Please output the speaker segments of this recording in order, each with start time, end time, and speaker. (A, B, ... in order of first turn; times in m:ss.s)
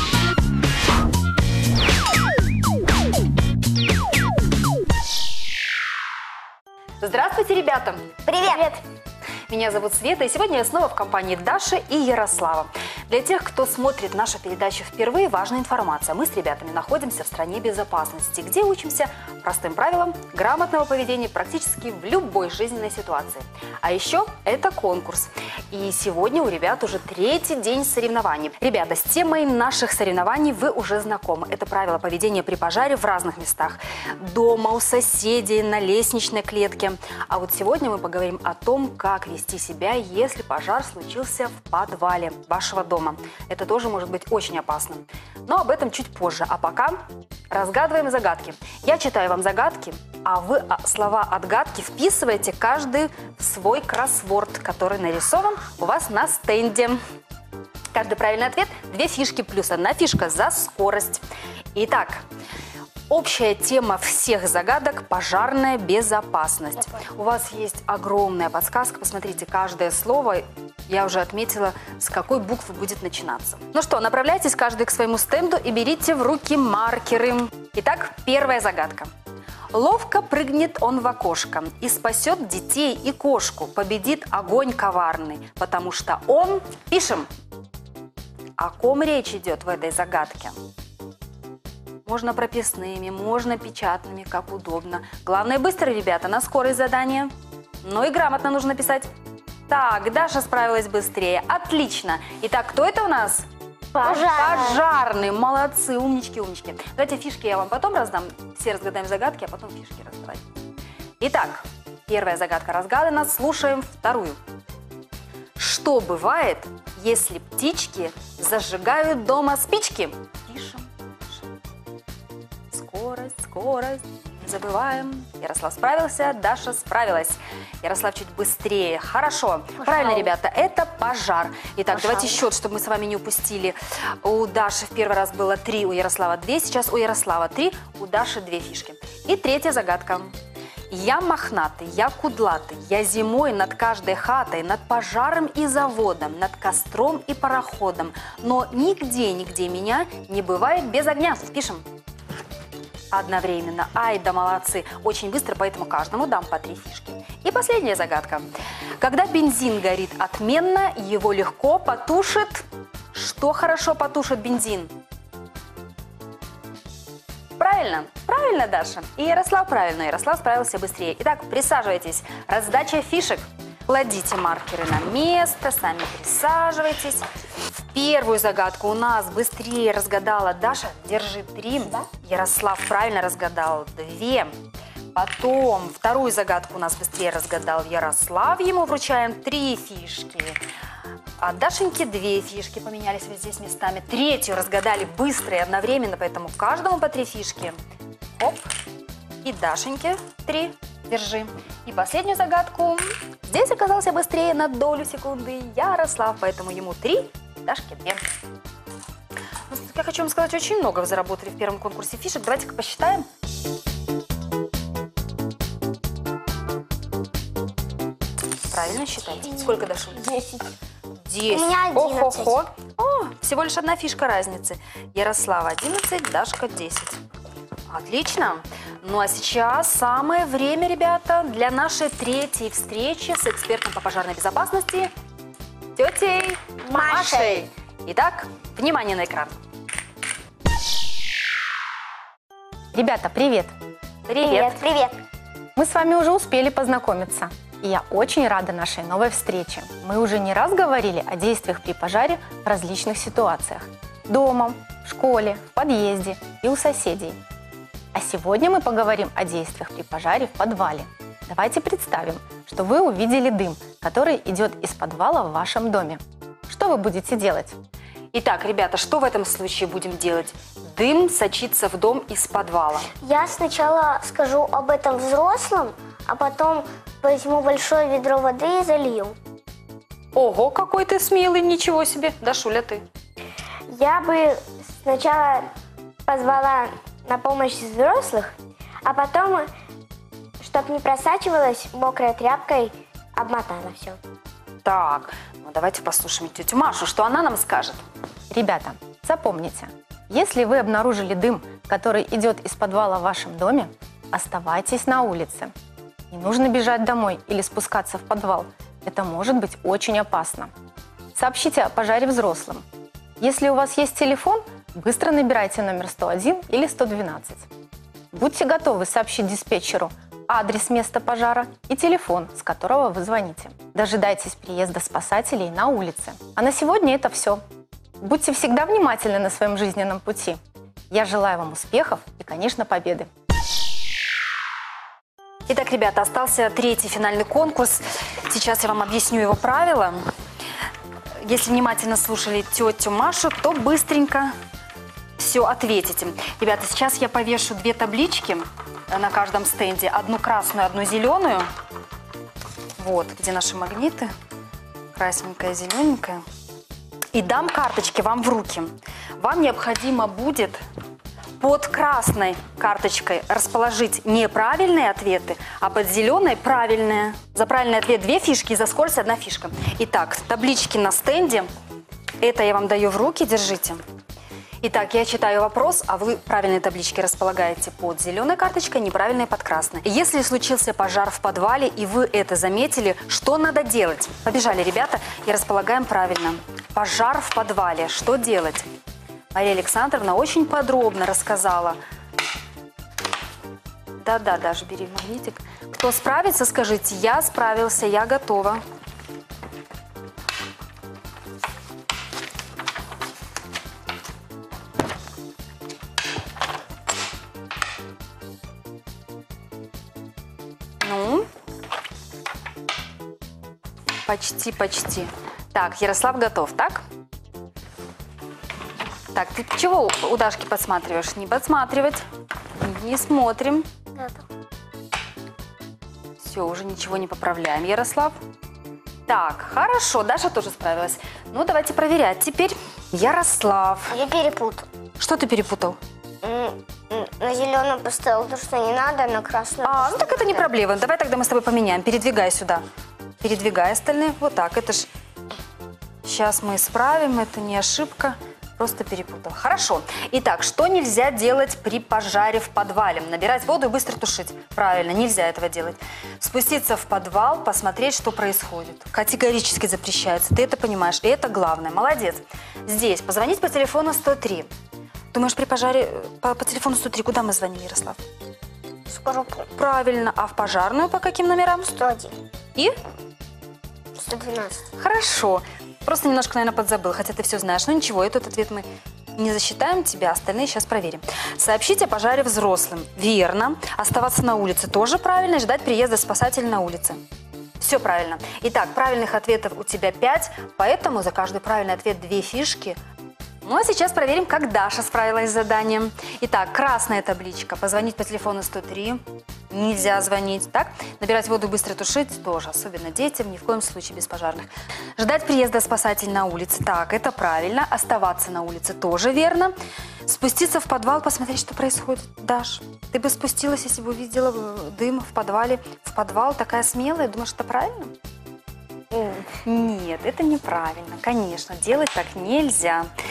0:07.0-0:08.1 A
0:08.3-0:08.8 B
0:09.5-0:57.0 A
0:57.9-1:01.2 A
1:01.7-1:02.2 A
1:03.1-1:19.1 A
1:19.7-1:27.3 A
1:28.6-1:30.6 A
1:32.0-1:39.1 A
1:39.7-1:50.4 A
1:43.9-1:44.8 B
1:51.2-1:54.4 A
1:55.6-2:01.5 A
2:02.7-2:20.3 A
2:10.0-2:10.2 B
2:20.9-2:31.8 A
2:33.1-2:44.9 A
2:47.6-2:57.3 A
2:57.9-3:04.5 A
3:05.1-3:10.6 A
3:11.4-3:17.8 A
3:18.3-3:18.7 A
3:19.4-3:28.2 A
3:29.7-3:33.3 A
3:38.7-3:40.3 A
3:40.2-3:40.7 B
3:41.2-3:47.2 A
3:41.5-3:42.6 B
3:47.9-3:55.1 A
3:55.9-3:59.5 A
3:56.9-3:57.6 B
4:02.9-4:03.7 C
4:04.3-4:04.8 A
4:04.4-4:05.2 B
4:05.8-4:17.4 C
4:18.1-4:27.8 C
4:28.3-4:33.1 A
4:33.2-4:39.4 B
4:40.3-4:43.0 A
4:43.9-4:45.6 B
4:46.3-4:48.5 B
4:49.0-4:49.6 B
4:50.6-4:54.2 B
4:54.8-4:58.0 A
4:58.5-5:05.7 C
5:06.3-5:10.7 C
5:11.3-5:12.8 C
5:13.4-5:17.7 C
5:18.3-5:27.6 C
5:28.2-5:30.6 C
5:31.1-5:33.3 C
5:35.7-5:40.2 A
5:41.4-5:44.5 A
5:45.4-5:51.7 A
5:53.0-5:54.3 A
5:55.1-5:56.4 A
5:57.3-6:00.8 A
6:01.6-6:11.7 A
6:12.4-6:14.0 A
6:14.8-6:28.9 A
6:29.5-6:32.0 A
6:34.2-6:38.8 A
6:51.0-6:51.5 A
6:54.2-6:57.0 A
6:59.3-7:02.3 A
7:02.8-7:03.9 A
7:04.2-7:04.4 B
7:06.4-7:08.3 A
7:09.3-7:14.2 A
7:14.1-7:14.9 B
7:15.2-7:16.0 A
7:16.4-7:20.6 B
7:19.8-7:22.8 A
7:23.4-7:25.1 A
7:26.2-7:44.7 A
7:45.3-7:48.2 A
7:49.1-7:49.7 B
7:49.7-7:51.9 A
7:51.9-7:52.4 B
7:54.2-7:54.8 B
7:54.9-8:07.2 A
8:07.8-8:13.0 A
8:13.6-8:38.1 A
8:39.1-8:43.1 A